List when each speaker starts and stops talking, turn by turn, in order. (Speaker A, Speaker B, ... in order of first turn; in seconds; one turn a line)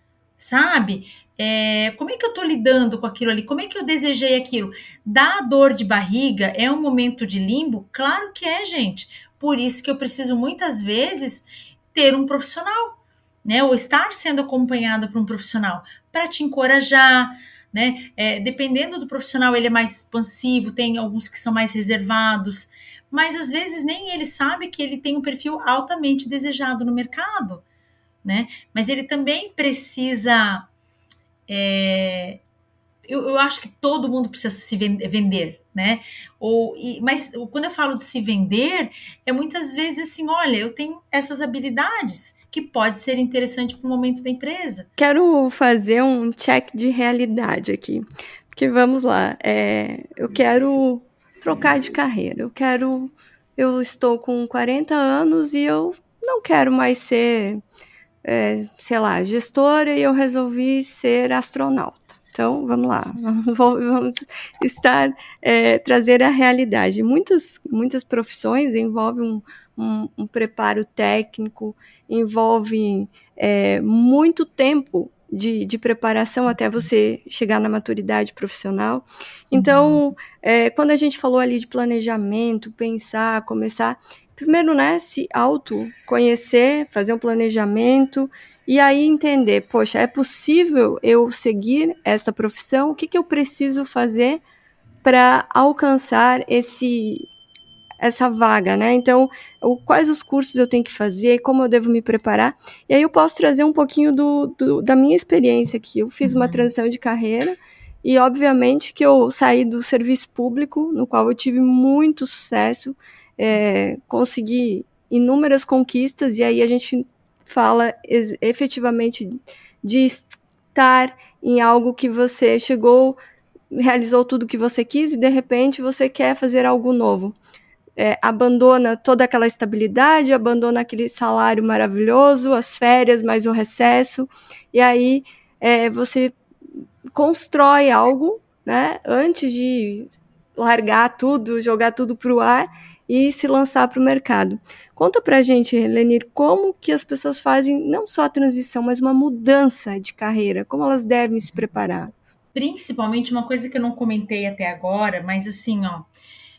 Speaker A: 0.4-27.6
Speaker A: 28.2-30.7
Speaker A: 31.5-32.4
Speaker A: 33.1-44.9
Speaker B: 45.0-57.6
Speaker B: 58.2-94.4
Speaker A: 79.5-80.0
Speaker B: 95.0-97.3
Speaker B: 98.0-123.2
Speaker A: 106.2-106.7
Speaker B: 123.7-127.4
Speaker B: 128.0-136.4
Speaker B: 137.1-152.1
Speaker A: 152.5-156.1